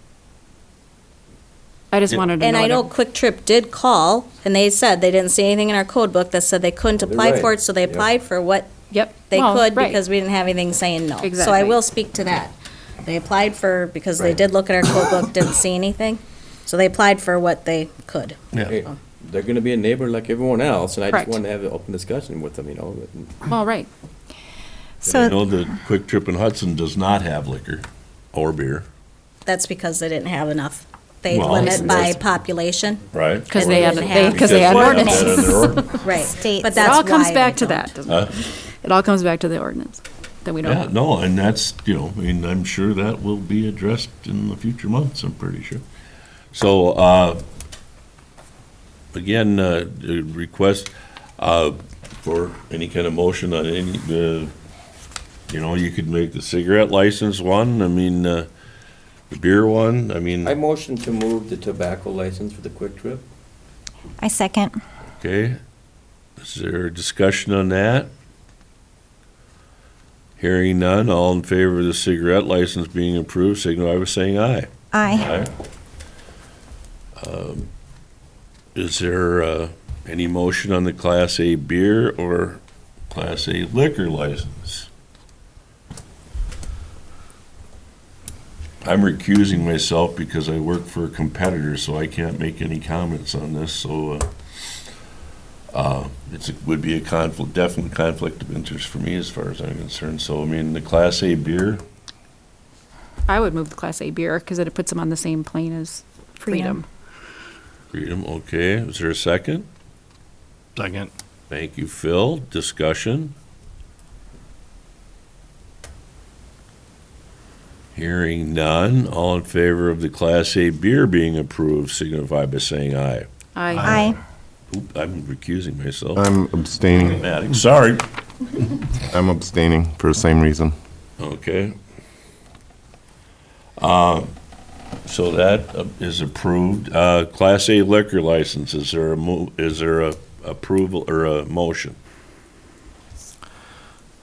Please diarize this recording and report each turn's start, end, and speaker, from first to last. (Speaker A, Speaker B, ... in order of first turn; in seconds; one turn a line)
Speaker A: 1.9-2.9
Speaker B: 2.4-18.9
Speaker C: 7.0-8.1
Speaker A: 8.9-10.0
Speaker A: 11.2-11.8
Speaker C: 14.2-14.4
Speaker C: 18.6-23.5
Speaker A: 23.5-23.9
Speaker D: 25.1-25.3
Speaker E: 25.1-28.8
Speaker B: 29.4-33.0
Speaker E: 31.3-32.2
Speaker E: 33.1-35.9
Speaker A: 33.5-40.9
Speaker B: 33.5-37.9
Speaker D: 36.4-36.9
Speaker E: 38.0-38.3
Speaker E: 40.6-45.8
Speaker E: 46.5-47.4
Speaker E: 49.1-54.5
Speaker E: 55.5-58.5
Speaker E: 59.3-60.5
Speaker C: 60.4-63.2
Speaker D: 64.2-64.8
Speaker E: 65.2-65.6
Speaker E: 66.4-68.1
Speaker E: 70.4-75.5
Speaker D: 74.9-75.3
Speaker E: 77.2-77.7
Speaker E: 78.7-84.9
Speaker E: 88.8-94.3
Speaker E: 95.7-101.8
Speaker A: 103.3-106.8
Speaker D: 106.5-106.8
Speaker E: 107.9-109.7
Speaker E: 111.5-113.3
Speaker E: 117.9-123.3
Speaker A: 123.5-124.0
Speaker D: 123.8-124.2
Speaker E: 124.7-126.3
Speaker F: 126.2-127.2
Speaker E: 127.0-128.0
Speaker F: 129.1-130.8
Speaker E: 131.2-131.8
Speaker E: 133.8-134.3
Speaker E: 135.1-142.0